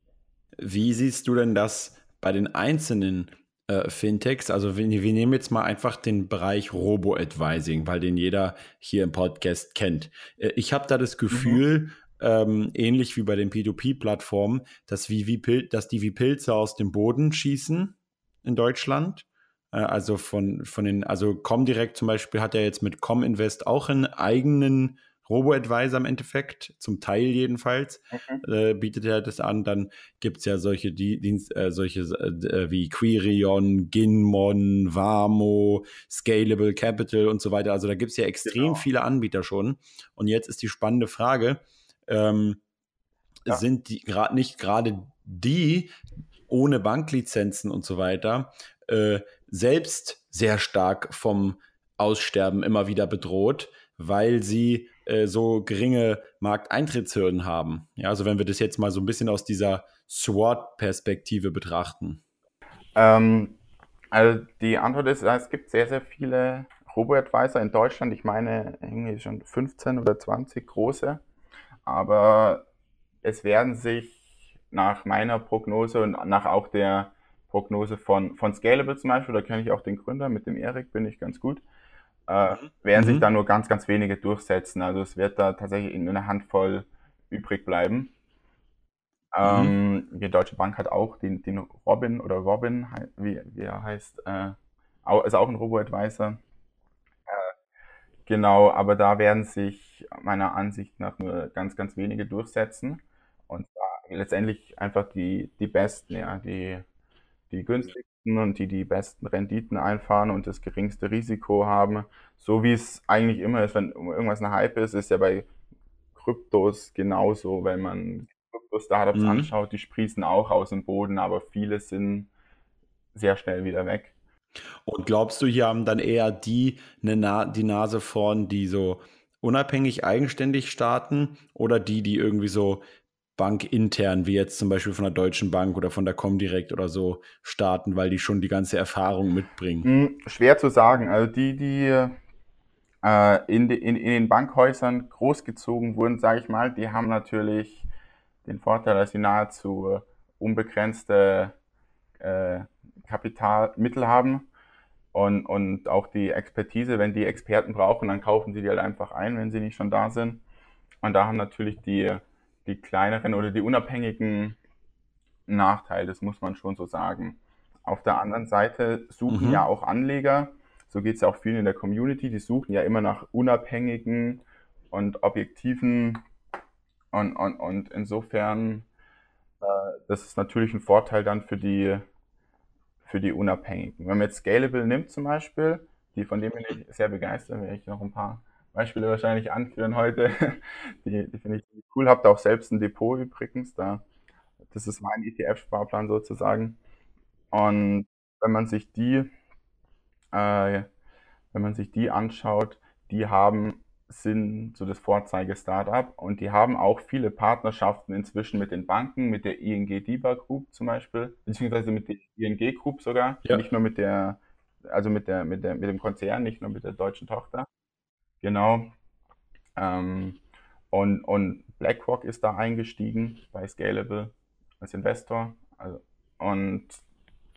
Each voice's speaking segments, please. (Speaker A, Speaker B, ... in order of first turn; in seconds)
Speaker A: 0.6-42.6, 43.5-45.9, 46.5-62.2, 83.0-83.2, 89.4-89.7, 119.2-119.5, 124.8-132.8, 133.4-139.9, 169.3-169.6
Speaker B: 11.3-11.6, 28.1-28.4, 38.5-38.8, 63.0-63.6, 64.1-71.2, 71.9-72.7, 73.2-81.6, 82.3-88.1, 89.3-96.4, 97.3-97.5, 98.3-106.8, 107.5-115.5, 116.2-122.3, 123.1-124.2, 139.8-142.2, 143.0-147.9, 148.4-151.6, 152.2-154.5, 155.1-160.4, 161.0-164.6, 165.5-176.2, 177.1-178.9, 179.6-182.1, 183.1-194.0, 194.7-196.8, 197.5-199.3, 200.3-200.9, 201.5-217.7, 218.4-218.9, 219.8-220.4, 220.9-227.0